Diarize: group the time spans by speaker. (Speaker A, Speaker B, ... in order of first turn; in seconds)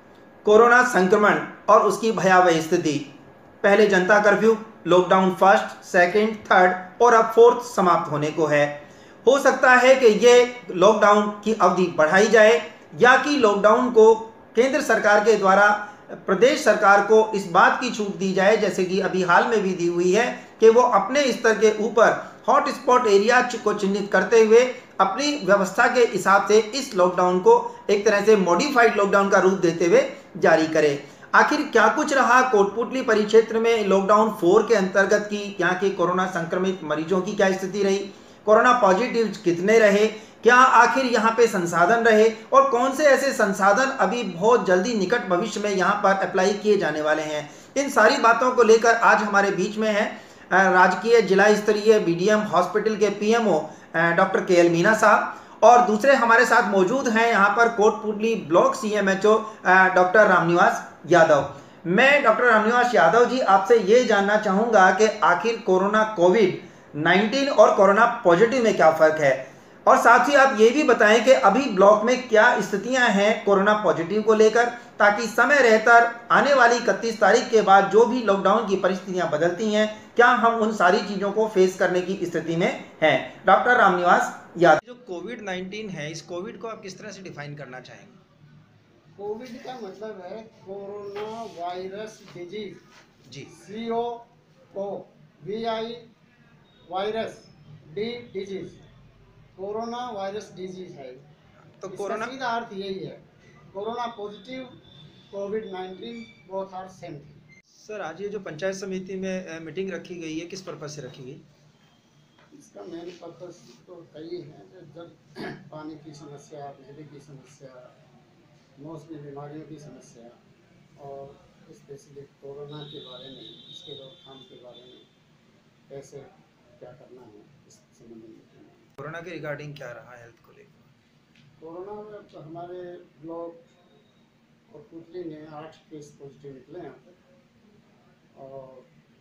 Speaker A: 0.4-3.0, 3.6-88.2, 101.8-102.3, 107.8-111.4, 129.0-130.8
Speaker B: 89.2-92.8, 93.5-96.0, 96.9-98.8, 99.5-101.2, 101.9-104.8, 105.3-107.4, 112.5-117.9, 118.8-120.4, 121.0-125.0, 125.9-126.3, 126.8-128.8, 131.6-133.7, 134.7-137.2, 138.3-138.9